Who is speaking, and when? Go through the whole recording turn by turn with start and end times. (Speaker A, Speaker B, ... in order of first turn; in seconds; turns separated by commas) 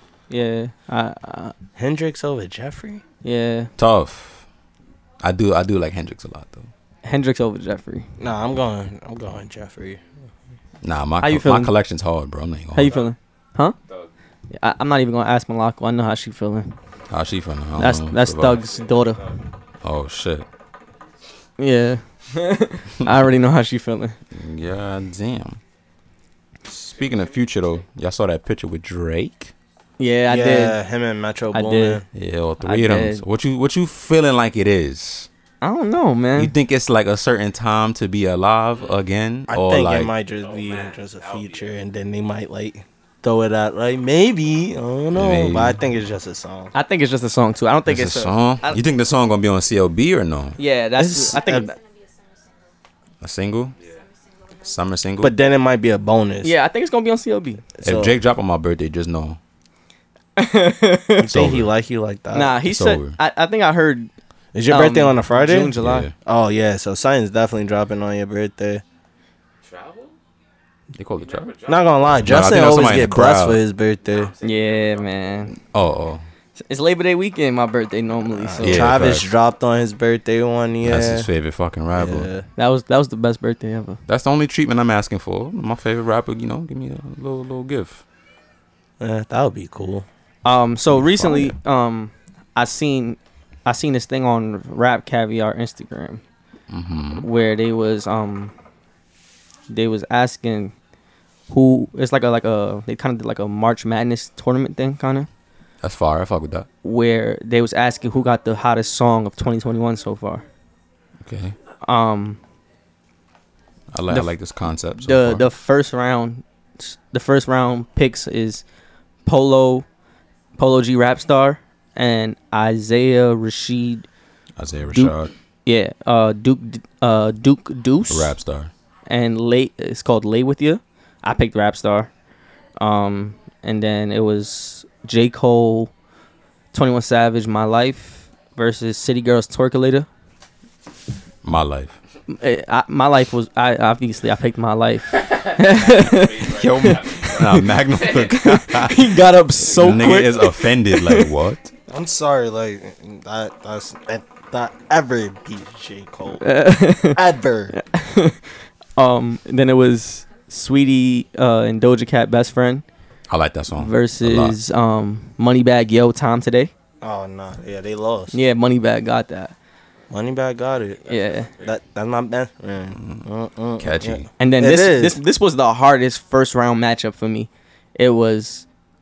Speaker A: 0.3-1.5, Speaker B: 1.8-3.0, Speaker A: 3.2-3.7, Speaker C: 3.8-4.5, Speaker C: 5.2-6.7, Speaker A: 7.0-8.1, Speaker B: 8.2-10.0, Speaker C: 10.8-13.0, Speaker A: 11.2-11.7, Speaker A: 12.7-13.8, Speaker D: 12.8-13.1, Speaker D: 13.8-14.1, Speaker A: 14.5-16.7, Speaker C: 17.1-18.6, Speaker A: 17.8-19.3, Speaker D: 18.4-19.4, Speaker C: 19.8-20.5, Speaker A: 21.6-24.2, Speaker C: 24.3-25.6, Speaker C: 26.7-29.5, Speaker D: 26.9-27.8, Speaker A: 30.0-30.8, Speaker B: 30.3-32.1, Speaker A: 31.5-32.0, Speaker C: 32.1-35.3, Speaker A: 32.6-33.2, Speaker A: 35.6-36.5, Speaker C: 36.4-40.1, Speaker B: 39.5-46.7, Speaker D: 40.4-41.8, Speaker C: 45.1-45.8, Speaker A: 46.7-48.8, Speaker C: 47.9-50.6, Speaker A: 50.6-51.8, Speaker B: 51.0-51.7, Speaker E: 51.2-52.7, Speaker C: 53.2-53.7, Speaker E: 53.8-54.8, Speaker C: 54.6-55.3, Speaker B: 55.2-56.5, Speaker A: 56.4-57.6, Speaker B: 57.8-58.1, Speaker C: 57.8-59.4, Speaker A: 60.4-61.3, Speaker B: 61.2-62.6, Speaker C: 61.3-61.7, Speaker A: 62.3-64.1, Speaker C: 62.6-63.2, Speaker B: 64.5-68.8, Speaker A: 64.7-66.1, Speaker C: 65.8-66.1, Speaker D: 69.6-70.2, Speaker C: 71.0-71.5, Speaker D: 71.2-72.7, Speaker B: 71.7-74.3, Speaker C: 72.2-73.6, Speaker D: 74.0-75.5, Speaker A: 74.4-75.5, Speaker C: 75.5-76.3, Speaker A: 76.6-79.0, Speaker B: 78.3-81.3, Speaker C: 78.6-79.3, Speaker C: 80.8-82.3, Speaker B: 81.9-82.5, Speaker A: 82.6-84.0, Speaker C: 84.1-88.0, Speaker B: 89.0-90.1, Speaker A: 90.5-96.2, Speaker C: 90.9-91.5, Speaker C: 96.7-97.3, Speaker A: 97.2-98.5, Speaker A: 99.7-100.7, Speaker A: 101.5-105.3, Speaker C: 105.8-106.7, Speaker A: 106.8-110.5, Speaker C: 111.2-111.6, Speaker A: 111.8-112.4, Speaker C: 113.9-115.5, Speaker A: 115.0-118.6, Speaker A: 119.2-119.9, Speaker A: 120.6-124.1, Speaker C: 124.6-125.3, Speaker A: 124.9-128.4, Speaker C: 128.1-128.7, Speaker A: 129.1-132.1, Speaker A: 132.8-135.9, Speaker A: 136.7-140.1, Speaker C: 141.4-142.0, Speaker A: 142.3-151.3, Speaker D: 145.3-148.5, Speaker C: 146.5-151.7, Speaker B: 151.9-157.8, Speaker A: 156.4-157.2, Speaker A: 157.8-158.4, Speaker A: 159.0-162.8, Speaker C: 163.3-164.6, Speaker A: 163.7-166.7, Speaker B: 167.0-168.3, Speaker A: 168.3-169.5, Speaker B: 170.1-171.1, Speaker D: 171.1-171.8, Speaker A: 171.1-171.5, Speaker B: 171.6-175.2, Speaker C: 173.0-173.2, Speaker C: 173.8-174.3, Speaker A: 174.4-178.7